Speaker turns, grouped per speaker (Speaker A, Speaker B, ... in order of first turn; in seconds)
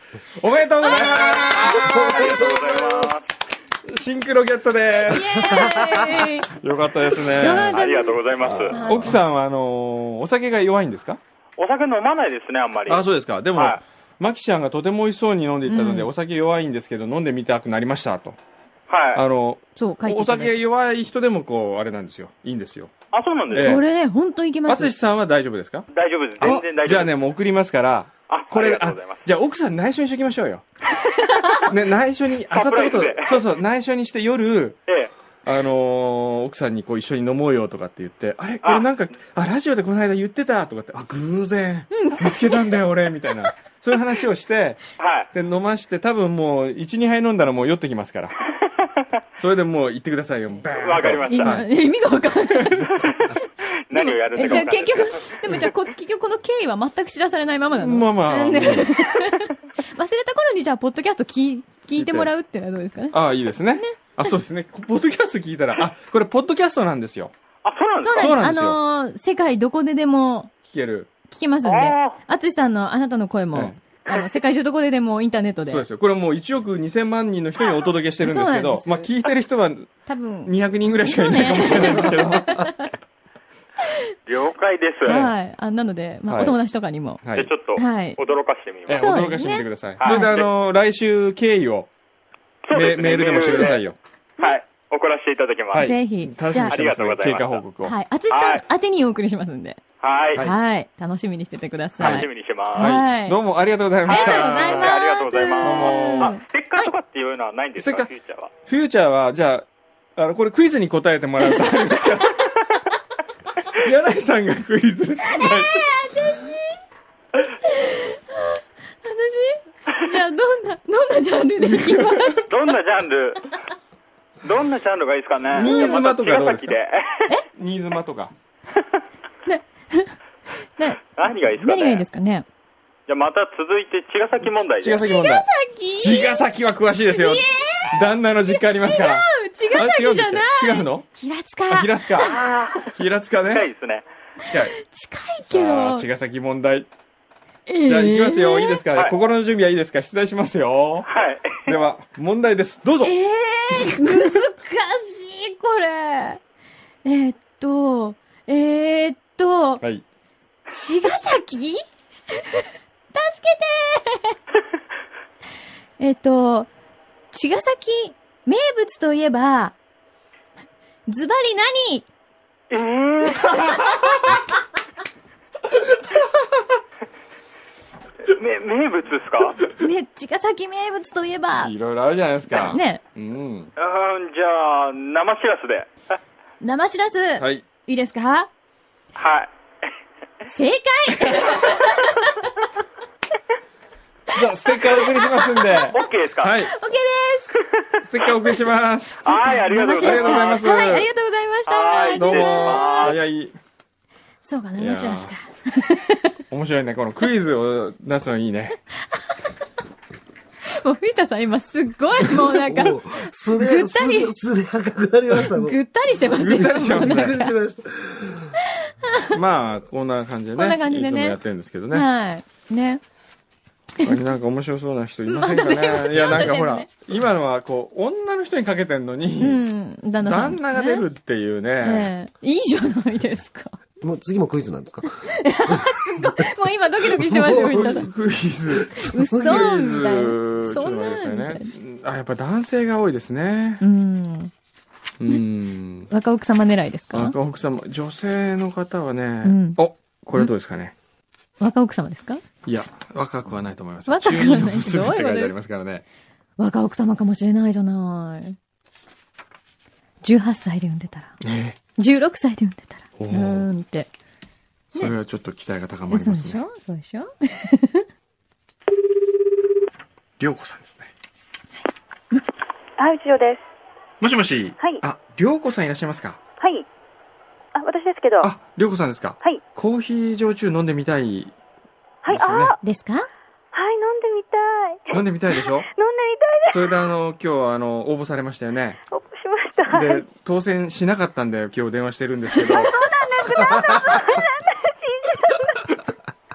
Speaker A: 0.4-2.4, 3.9-7.9, 8.5-11.2, 12.9-18.4, 19.1-22.9, 23.5-23.8, 24.6-25.9, 26.4-30.6, 31.6-34.8, 35.4-48.3, 49.4-51.7, 52.5-53.3, 54.4-54.7, 57.7-59.0, 62.0-62.3, 63.1-67.3, 68.1-68.8, 70.6-71.1, 73.5-73.8, 75.7-79.9, 80.4-82.7, 86.3-86.6, 87.2-87.5, 88.9-91.9, 92.7-94.0, 95.7-97.9, 102.0-105.0, 105.6-106.4, 107.8-108.1, 108.6-112.8, 113.7-116.3, 121.7-122.3, 125.5-126.8, 127.5-128.3, 134.8-135.4, 136.0-141.1, 141.7-142.4, 142.9-143.7, 144.4-144.8, 145.4-146.9, 147.8-151.1, 151.6-153.2, 153.8-154.4, 173.6-173.9, 181.6-183.7, 187.4-187.6, 194.3-196.7, 198.0-201.1, 202.0-203.5, 204.8-205.3, 206.5-208.8, 216.2-217.4, 219.3-222.1, 224.0-229.6, 230.2-232.1, 237.8-243.8, 245.2-246.1, 247.1-250.9, 252.7-256.0, 261.4-261.8, 263.2-263.7, 264.9-266.6, 270.4-271.1, 274.2-276.4, 278.4-281.5, 282.3-282.8, 285.1-285.9, 286.6-289.0, 289.9-293.1
Speaker B: 0.8-3.1, 5.4-6.1, 8.4-8.9, 212.5-215.8, 216.9-218.6, 234.0-236.4, 237.1-238.1, 238.7-239.7
Speaker C: 1.0-3.3, 7.5-8.8, 11.6-13.0, 18.9-19.2, 23.1-23.8, 25.9-27.1, 28.3-29.2, 32.5-33.4, 45.0-45.3, 50.7-51.6, 53.0-53.3, 53.9-55.3, 67.6-68.4, 71.6-72.2, 84.3-85.3, 87.3-89.2, 90.0-90.5, 92.7-93.8, 94.4-95.9, 96.7-97.6, 98.3-98.6, 100.0-100.4, 102.0-103.0, 104.1-108.5, 122.5-123.5, 124.4-127.3, 131.2-132.0, 133.1-135.1, 142.2-142.9, 143.5-144.1, 151.1-151.7, 172.7-173.9, 178.3-179.6, 183.8-185.9, 189.2-189.5, 195.9-196.6, 197.6-198.0, 199.2-200.7, 201.7-203.2
Speaker D: 5.1-6.5, 7.3-9.2, 15.6-16.1, 19.8-20.5, 23.6-24.9, 41.9-42.8, 51.2-64.3, 68.0-70.5, 71.3-75.8, 78.2-78.9, 80.1-80.5, 81.0-82.9, 85.0-87.2, 87.7-88.2, 88.9-90.3, 95.8-96.8, 97.8-99.8, 100.3-103.4, 104.1-106.9, 115.4-116.8, 117.6-122.7, 129.4-130.2, 130.8-131.0, 131.6-132.5, 134.9-136.4, 137.1-142.1, 144.5-146.1, 147.7-148.8, 153.0-156.4, 157.0-159.8, 160.7-161.8, 163.1-164.4, 166.0-166.7, 167.3-169.8, 171.1-172.1, 179.8-181.7, 182.5-183.0, 186.6-188.5, 190.4-192.7, 194.8-196.0, 196.6-197.5, 199.2-203.2, 204.4-206.4, 209.1-209.4, 210.7-214.3, 215.3-217.5, 218.8-219.3, 220.5-221.4, 221.9-223.0, 225.3-226.9, 229.4-231.0, 231.8-233.8, 235.2-238.1, 239.0-241.7, 243.8-244.5, 246.1-247.3, 249.4-249.8, 251.6-252.4, 254.1-255.5, 256.6-258.6, 260.2-261.4, 261.9-264.1, 266.1-268.0, 282.8-283.3
Speaker E: 273.0-273.6, 276.6-276.9, 277.7-278.5, 282.2-282.8, 283.7-287.1, 289.1-290.2, 292.6-295.9